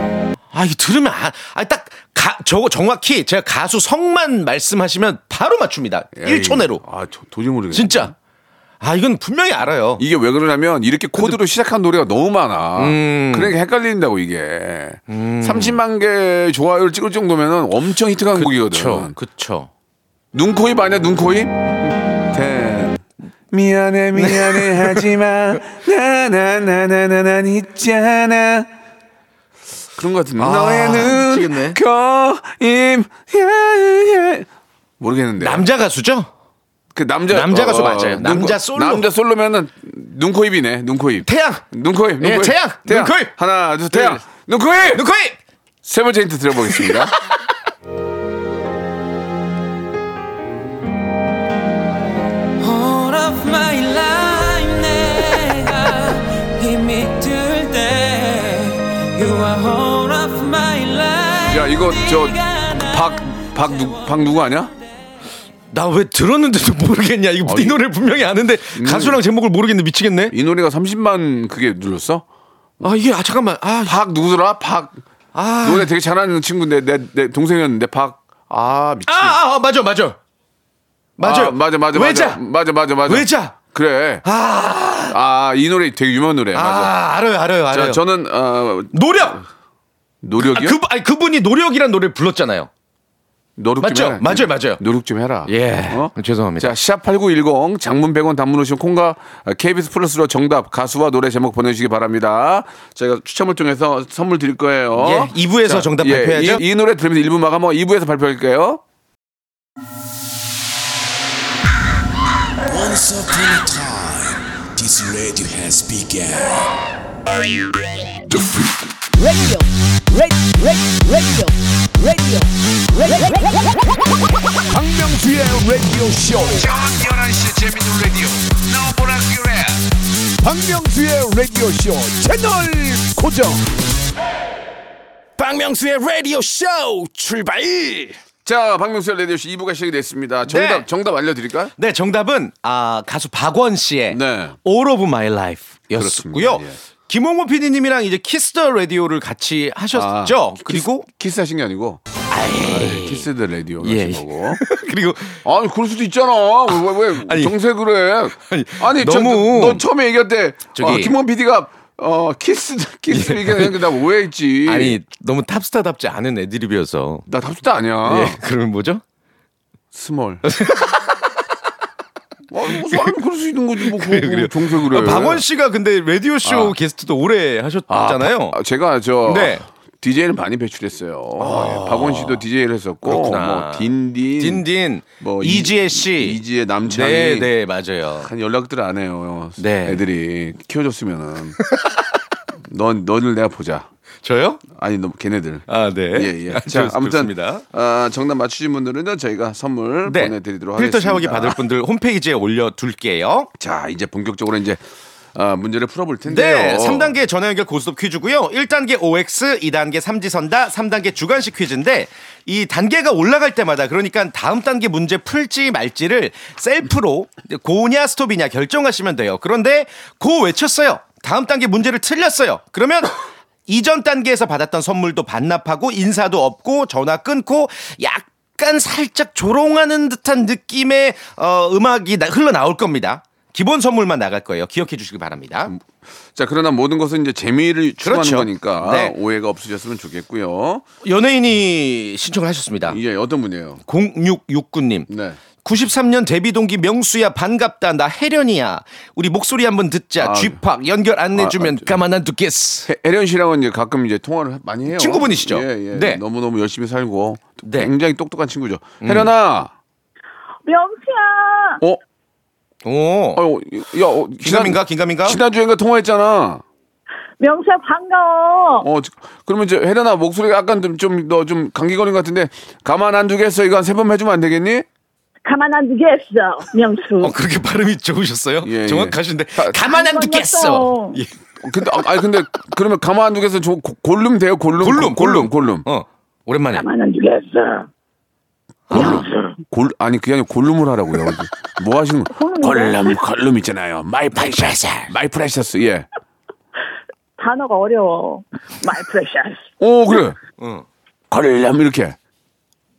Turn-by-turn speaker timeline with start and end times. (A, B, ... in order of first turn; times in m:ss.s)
0:00.5-0:06.8 A
0:06.2-0:08.1 B
0:07.7-0:08.1 A
0:08.8-0:10.0 A
0:10.0-0:19.1 B
0:12.8-0:13.5 A
0:15.1-0:15.8 A
0:18.3-0:19.7 A
0:20.3-0:28.7 B
0:24.1-0:25.1 A
0:30.0-0:34.5 B
0:30.4-0:31.8 A
0:35.0-0:35.6 B
0:35.4-0:36.3 A
0:36.9-0:45.0 B
0:37.3-0:39.0 A
0:41.2-0:41.6 A
0:42.2-0:43.3 A
0:43.9-0:44.2 A
0:44.9-0:45.4 A
0:45.8-0:47.1 B
0:46.6-0:47.3 A
0:52.6-1:04.2 C
1:01.4-1:04.7 B
1:05.7-1:10.3 A
1:07.4-1:07.8 B
1:08.7-1:09.2 B
1:10.3-1:12.2 B
1:12.8-1:14.0 A
1:13.8-1:15.0 B
1:15.3-1:15.9 A
1:15.6-1:19.4 B
1:19.0-1:20.2 A
1:21.2-1:22.4 A
1:21.2-1:24.2 B
1:23.0-1:23.6 A
1:24.2-1:25.2 A
1:25.1-1:26.9 B
1:26.5-1:28.0 A
1:27.7-1:29.4 B
1:28.9-1:29.4 A
1:30.2-1:30.8 B
1:30.4-1:32.7 A
1:33.6-1:48.8 B
1:33.8-1:34.8 A
1:35.4-1:36.7 A
1:45.0-1:46.6 A
1:52.6-1:56.7 D
1:59.1-2:03.6 D
2:04.7-2:06.8 B
2:05.2-2:09.7 D
2:10.4-2:11.1 B
2:11.2-2:12.0 D
2:12.1-2:13.6 B
2:15.4-2:18.2 E
2:18.4-2:21.7 B
2:20.4-2:20.8 A
2:21.8-2:31.1 A
2:24.1-2:24.6 B
2:26.0-2:26.8 B
2:29.9-2:32.0 B
2:32.3-2:33.3 A
2:32.6-2:34.6 B
2:33.8-2:35.4 A
2:35.4-2:45.0 B
2:37.0-2:37.5 A
2:38.4-2:39.8 A
2:40.7-2:41.1 A
2:43.1-2:43.8 A
2:44.6-2:47.2 A
2:47.3-2:48.4 B
2:48.0-2:49.0 A
2:49.9-2:50.4 B
2:50.4-2:51.1 A
2:52.5-2:55.4 B
2:52.7-2:53.1 A
2:53.8-2:58.6 A
2:56.4-2:56.7 B
2:57.9-3:04.6 B
2:59.2-2:59.6 A
3:01.4-3:02.4 A
3:03.0-3:08.3 A
3:05.2-3:07.5 B
3:08.2-3:11.6 B
3:09.6-3:10.0 A
3:12.7-3:13.9 B
3:14.2-3:14.6 A
3:14.7-3:21.6 B
3:15.7-3:17.6 A
3:20.0-3:23.5 A
3:23.6-3:27.2 B
3:26.2-3:55.7 A
3:56.3-4:00.8 B
3:58.0-3:59.1 A
4:01.0-4:03.0 A
4:02.9-4:03.8 B
4:03.8-4:05.1 A
4:05.1-4:05.4 B
4:05.6-4:12.9 A
4:10.2-4:10.6 B
4:11.3-4:12.0 B
4:12.9-4:19.7 B
4:14.9-4:16.2 A
4:17.6-4:17.9 A
4:19.0-4:19.3 A
4:20.6-4:21.8 F
4:22.8-4:23.4 A
4:23.4-4:26.6 B
4:24.4-4:25.4 A
4:27.4-4:28.8 F
4:28.8-4:34.8 B
4:35.4-4:37.3 F
4:37.2-4:41.3 A
4:38.6-4:39.7 B
4:39.8-4:41.2 F
4:41.6-4:45.9 B
4:44.8-4:46.8 A
4:46.7-4:47.9 F
4:48.9-4:49.2 A
4:48.9-4:56.1 B
4:48.9-4:49.6 F
4:52.4-4:53.2 F
4:54.3-4:55.1 A
4:57.4-4:59.6 F
4:59.8-5:00.4 B
5:00.6-5:00.8 A
5:01.3-5:02.2 B